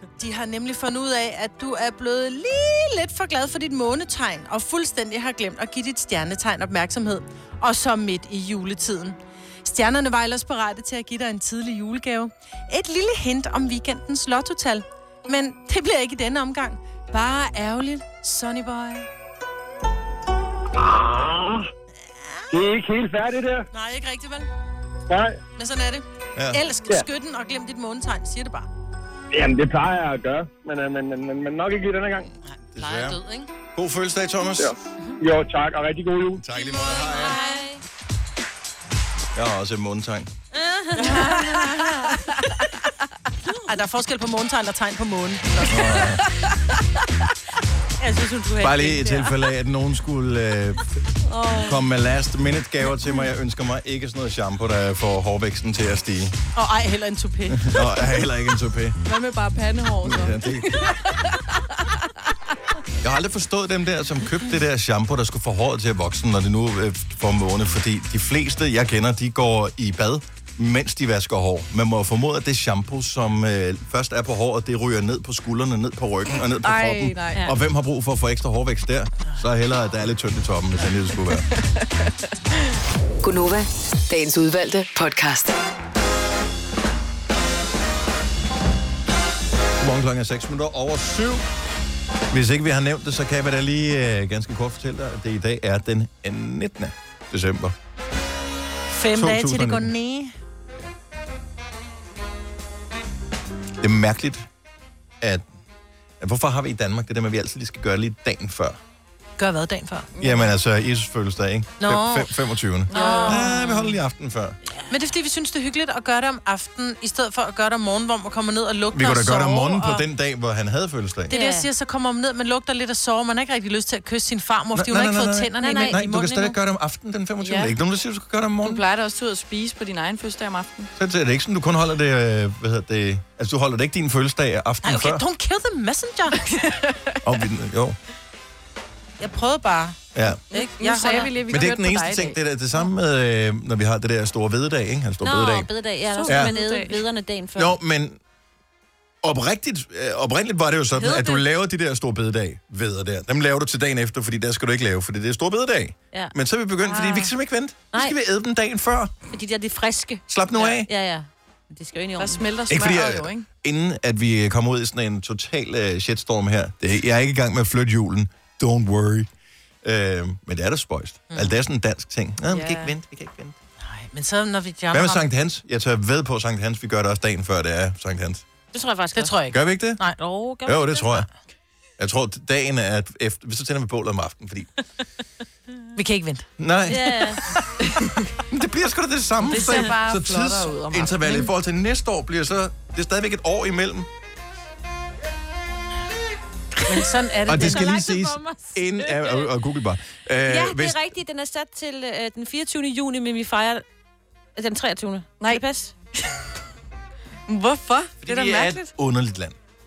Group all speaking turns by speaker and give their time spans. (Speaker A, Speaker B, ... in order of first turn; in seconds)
Speaker A: 0.2-19.1, 23.7-24.5, 25.5-28.7, 32.5-33.5, 37.1-37.6, 41.0-42.2, 43.7-46.0, 48.0-49.3, 56.5-58.1, 98.9-100.3, 109.4-110.1, 111.8-112.3, 112.9-113.4, 114.9-120.0, 121.3-126.5, 134.8-136.4, 139.2-141.3, 171.3-171.6, 173.8-175.2, 179.1-180.2, 185.9-186.5, 196.9-197.9
Speaker B: 20.7-21.7, 22.5-23.7, 25.1-25.4, 29.3-32.3, 34.6-36.4
Speaker C: 26.3-26.6, 32.7-33.2, 33.7-34.7, 36.4-37.4, 39.3-40.3, 45.7-46.2, 48.6-50.8, 51.6-56.4, 57.5-59.0, 60.0-60.9, 63.0-81.5, 89.8-91.5, 92.3-97.7, 99.1-99.9, 103.8-104.5, 105.2-105.5, 106.2-108.8, 110.2-114.6, 118.9-121.3, 124.7-128.8, 131.0-135.2, 137.2-138.0, 140.1-140.4, 141.5-145.7, 146.2-146.5, 147.6-148.2, 149.2-159.1, 160.3-160.9, 162.7-169.3, 169.8-173.6, 174.9-178.4, 179.5-180.0, 180.6-181.3, 182.0-184.7, 186.6-187.4, 188.5-194.1, 197.5-201.0, 208.2-209.6
Speaker D: 36.5-37.8, 40.5-41.5, 113.0-113.6, 121.3-121.7, 125.6-126.5, 145.2-147.8, 150.9-151.4, 159.3-162.5, 178.7-179.4, 180.2-181.2, 186.9-187.4, 197.3-199.5, 200.4-203.8, 204.6-205.9
Speaker E: 51.3-51.7, 59.0-62.0, 76.6-77.5, 81.4-82.3, 110.2-110.5, 112.9-113.5, 127.4-127.7, 128.6-130.9, 136.5-137.2, 140.5-142.4, 146.1-147.0, 162.2-163.4, 172.5-172.9, 189.4-191.5, 207.5-208.9
Speaker F: 83.2-85.5